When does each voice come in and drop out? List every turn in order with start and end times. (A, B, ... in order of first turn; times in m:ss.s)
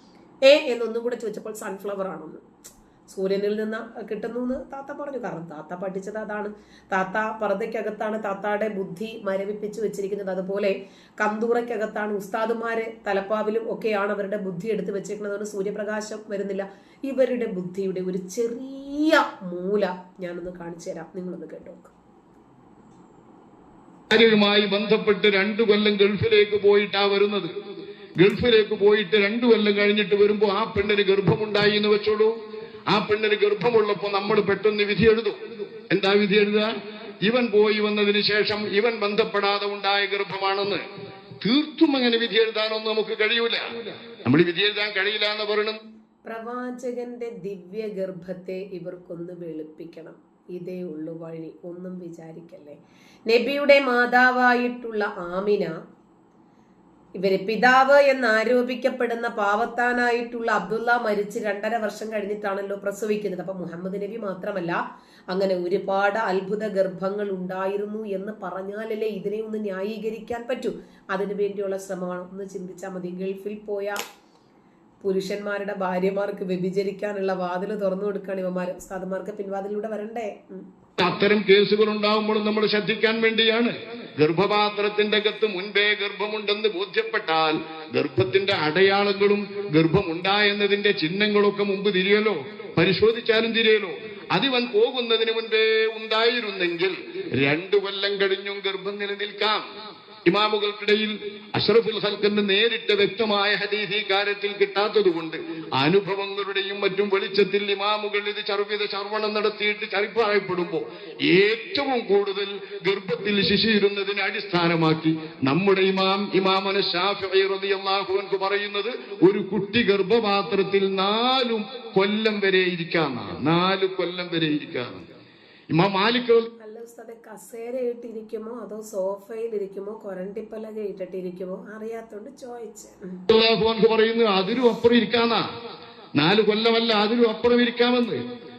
0:00.5-0:02.4 A
0:03.1-0:21.9 A
0:24.1-0:27.5 B
0:28.2-0:32.3 B
0:32.9-0:35.4 B
0:35.9-0:36.7 B
0:37.2-0:40.8 B
0:41.4-0:43.6 B
0:44.2-0:45.8 B
0:46.2-0:55.7 A
0:57.2-1:14.0 A
1:15.0-1:20.7 A
1:21.0-1:39.6 B
1:40.3-2:05.0 B
2:05.7-2:06.5 B
2:06.6-2:13.2 A
2:13.3-2:15.4 B
2:16.2-2:18.2 B